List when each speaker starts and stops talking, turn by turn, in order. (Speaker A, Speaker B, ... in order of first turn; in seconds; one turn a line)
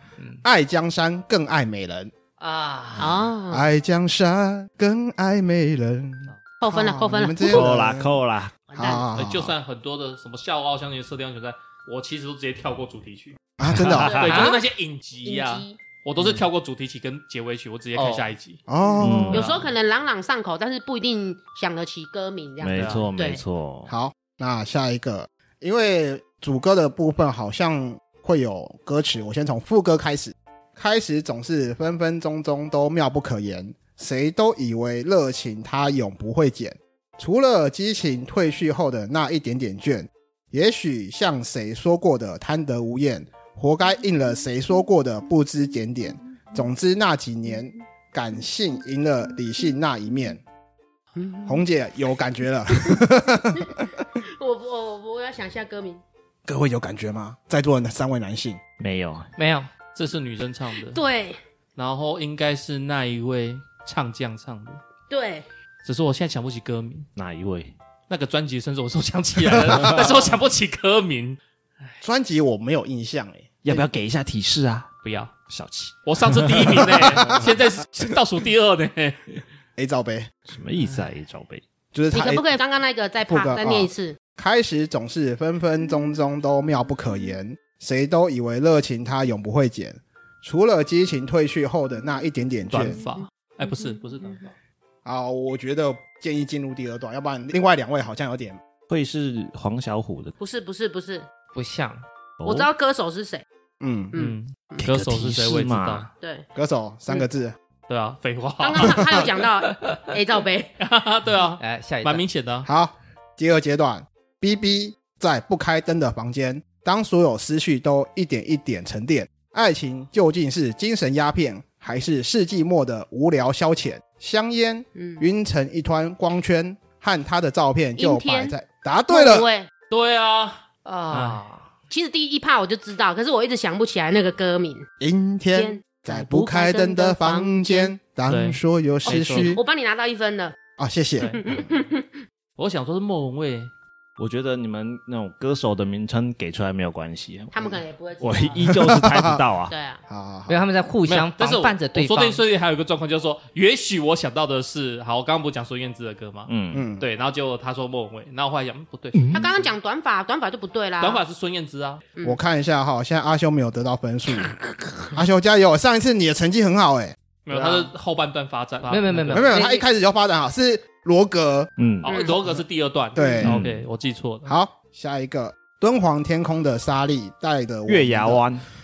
Speaker A: 0.4-2.1
Speaker B: 2.4-3.2
Speaker C: 3.0-3.6
Speaker A: 3.5-8.2
Speaker C: 6.6-7.7
Speaker D: 7.4-8.6
Speaker C: 8.7-9.1
Speaker A: 8.7-9.5
Speaker E: 9.1-13.4
Speaker A: 13.6-14.2
Speaker D: 13.7-14.3
Speaker E: 14.0-18.6
Speaker C: 14.0-14.5
Speaker B: 14.2-14.6
Speaker C: 15.2-15.8
Speaker B: 17.9-18.3
Speaker A: 18.7-19.4
Speaker D: 19.0-19.5
Speaker C: 19.3-23.4
Speaker E: 19.3-19.7
Speaker D: 22.6-23.9
Speaker E: 22.7-23.1
Speaker A: 23.9-50.4
Speaker C: 51.1-51.5
Speaker A: 51.5-54.0
Speaker C: 53.6-56.0
Speaker A: 56.5-58.6
Speaker D: 58.8-59.3
Speaker B: 59.4-59.7
Speaker E: 59.9-61.0
Speaker C: 60.9-61.4
Speaker E: 61.8-64.8
Speaker C: 65.1-65.5
Speaker E: 65.8-67.1
Speaker D: 67.2-67.7
Speaker E: 68.1-72.0
Speaker A: 72.0-73.9
Speaker D: 73.6-74.9
Speaker E: 75.0-75.3
Speaker D: 75.5-77.3
Speaker E: 76.0-79.4
Speaker A: 77.0-77.4
Speaker A: 79.8-80.3
Speaker D: 80.5-81.6
Speaker A: 81.9-82.4
Speaker C: 82.1-84.2
Speaker A: 83.3-93.0
Speaker E: 92.7-94.5
Speaker A: 95.0-98.6
Speaker D: 98.9-100.3
Speaker C: 100.4-101.2
Speaker B: 101.5-102.0
Speaker D: 102.4-102.7
Speaker C: 102.4-103.4
Speaker A: 103.8-104.1
Speaker C: 104.1-104.8
Speaker E: 104.1-106.1
Speaker D: 104.8-106.1
Speaker C: 106.2-106.4
Speaker A: 106.5-107.5
Speaker E: 107.9-109.3
Speaker C: 108.6-110.7
Speaker E: 110.8-112.7
Speaker B: 111.6-112.2
Speaker A: 112.6-129.5
Speaker C: 125.0-125.2
Speaker C: 128.0-128.5
Speaker C: 129.1-129.7
Speaker E: 129.9-131.4
Speaker B: 130.8-131.7
Speaker C: 131.9-134.8
Speaker A: 135.0-139.6
Speaker C: 135.5-137.9
Speaker E: 138.3-139.6
Speaker C: 139.1-140.6
Speaker A: 140.8-141.4
Speaker E: 141.2-141.4
Speaker C: 141.4-142.1
Speaker E: 142.6-143.7
Speaker D: 144.2-147.5
Speaker C: 147.5-148.7
Speaker D: 148.2-149.7
Speaker A: 148.7-149.4
Speaker C: 149.7-150.0
Speaker A: 150.1-150.6
Speaker B: 150.5-152.4
Speaker E: 151.1-159.7
Speaker D: 156.5-156.8
Speaker A: 156.7-157.1
Speaker C: 159.3-161.2
Speaker E: 161.0-162.1
Speaker A: 162.2-167.8
Speaker E: 167.4-169.5
Speaker B: 168.9-169.8
Speaker A: 169.3-171.7
Speaker D: 171.8-172.2
Speaker E: 172.0-174.5
Speaker C: 172.1-172.4
Speaker A: 173.1-173.6
Speaker D: 173.4-173.8
Speaker A: 174.4-178.4
Speaker D: 177.9-178.6